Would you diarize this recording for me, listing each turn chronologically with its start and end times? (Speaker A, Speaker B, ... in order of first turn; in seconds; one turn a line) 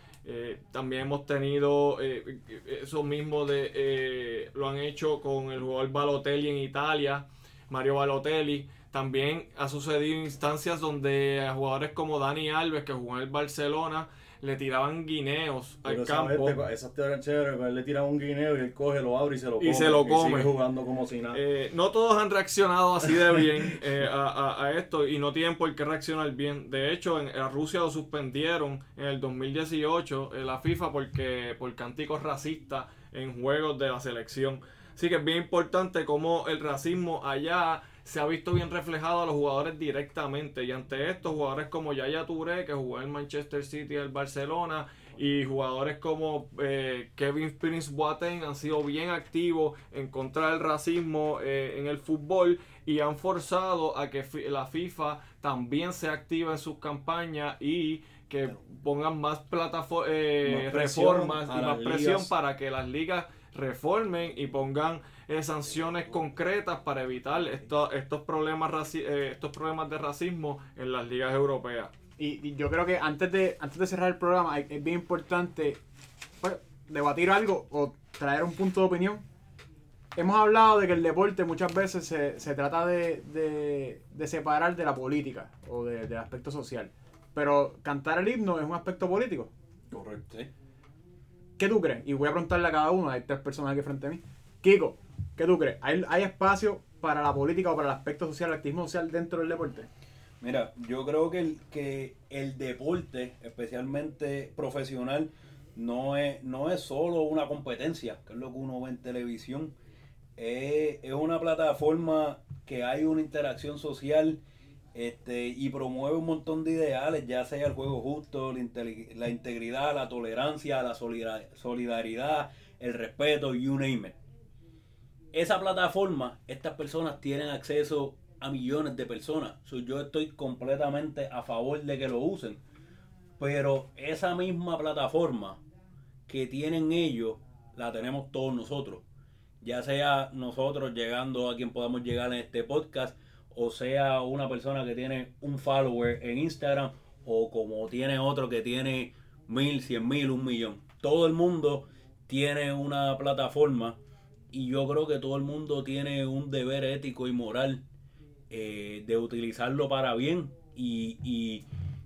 Speaker A: 0.2-16.6
Speaker B: 15.8-21.4
Speaker A: 19.6-20.6
Speaker A: 21.3-71.9
Speaker B: 60.4-62.3
Speaker C: 72.2-75.8
Speaker C: 76.4-79.2
Speaker C: 80.1-89.5
Speaker D: 89.9-90.5
Speaker C: 91.6-99.9
Speaker D: 100.4-109.7
Speaker D: 110.4-114.4
Speaker D: 114.9-124.2
Speaker D: 125.3-132.6
Speaker D: 133.4-135.6
Speaker D: 136.3-139.0
Speaker D: 139.6-154.0
Speaker D: 154.5-157.8
Speaker D: 158.5-161.6